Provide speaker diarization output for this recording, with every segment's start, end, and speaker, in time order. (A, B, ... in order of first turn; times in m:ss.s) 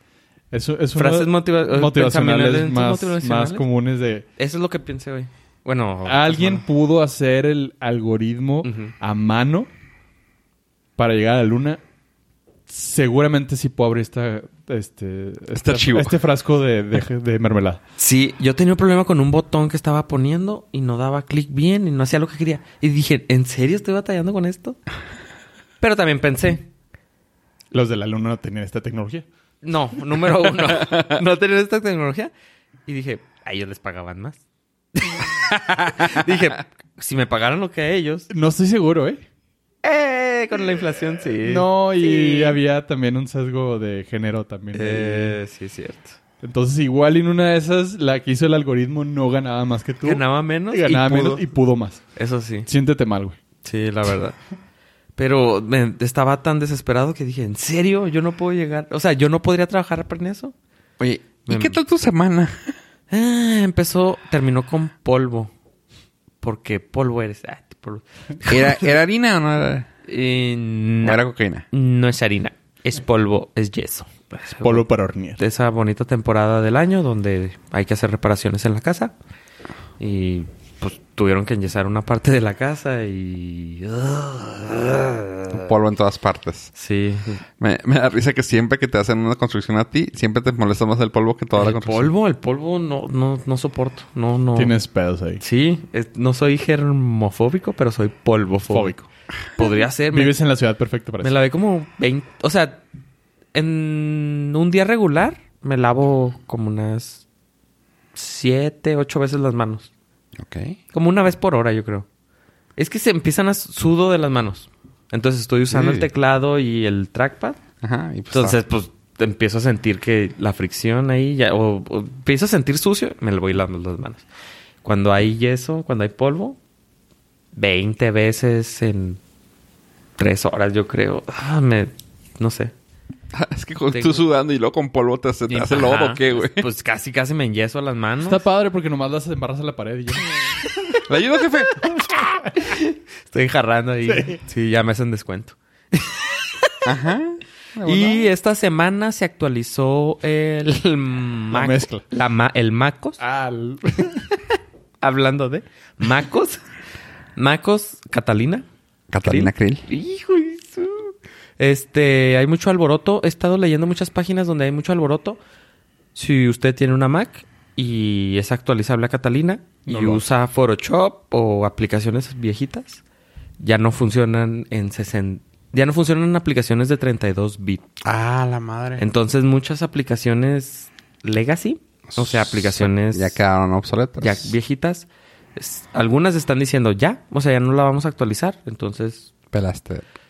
0:00.5-0:04.3 A
0:01.0-0:03.6 B
0:04.4-0:06.6 B
0:06.0-0:09.7 A
0:08.6-0:08.9 B
0:11.0-0:11.8 A
0:12.7-0:17.8 A
0:15.5-0:16.2 C
0:18.0-0:24.8 B
0:25.8-0:26.7 B
0:27.7-0:29.2 A
0:29.6-0:32.3 B
0:32.9-0:34.4 B
0:35.0-0:38.3 B
0:38.3-0:39.2 A
0:39.8-0:42.6 B
0:41.4-0:45.4 A
0:44.7-0:46.2 B
0:46.4-0:52.1 A
0:50.0-0:51.4 B
0:52.2-0:52.7 B
0:52.7-0:53.4 A
0:53.6-0:54.4 B
0:55.2-1:00.5 B
1:01.0-1:02.7 C
1:01.5-1:01.8 B
1:03.1-1:05.5 B
1:06.4-1:08.9 B
1:08.5-1:09.9 C
1:10.1-1:14.8 B
1:11.0-1:11.7 C
1:14.6-1:15.4 A
1:15.4-1:19.1 B
1:20.0-1:25.6 B
1:25.5-1:26.7 C
1:26.8-1:27.4 B
1:27.6-1:32.1 C
1:31.6-1:34.7 B
1:34.6-1:35.4 A
1:35.4-1:39.0 B
1:38.7-1:39.0 A
1:39.6-1:40.4 B
1:39.6-1:41.4 A
1:41.2-1:42.8 B
1:43.5-1:47.2 B
1:48.2-1:49.9 B
1:50.4-1:50.8 C
1:50.9-1:52.1 B
1:52.8-1:57.6 B
1:55.7-1:56.1 C
1:57.8-1:58.6 C
1:58.3-2:04.3 B
2:04.8-2:06.6 B
2:07.6-2:09.2 B
2:10.2-2:12.7 B
2:13.3-2:16.7 C
2:13.9-2:14.2 B
2:15.5-2:18.4 B
2:18.2-2:20.4 A
2:21.1-2:21.9 C
2:22.0-2:26.8 B
2:24.0-2:24.4 A
2:26.8-2:28.3 C
2:27.8-2:33.2 B
2:31.5-2:32.0 A
2:33.2-2:34.3 A
2:35.0-2:36.6 B
2:37.4-2:38.7 B
2:39.1-2:39.8 C
2:39.2-2:45.4 B
2:46.2-2:53.0 B
2:49.9-2:50.2 A
2:53.6-2:57.8 B
2:58.0-2:59.0 C
2:59.0-3:03.4 B
3:02.1-3:04.5 C
3:04.2-3:09.3 B
3:09.5-3:10.0 C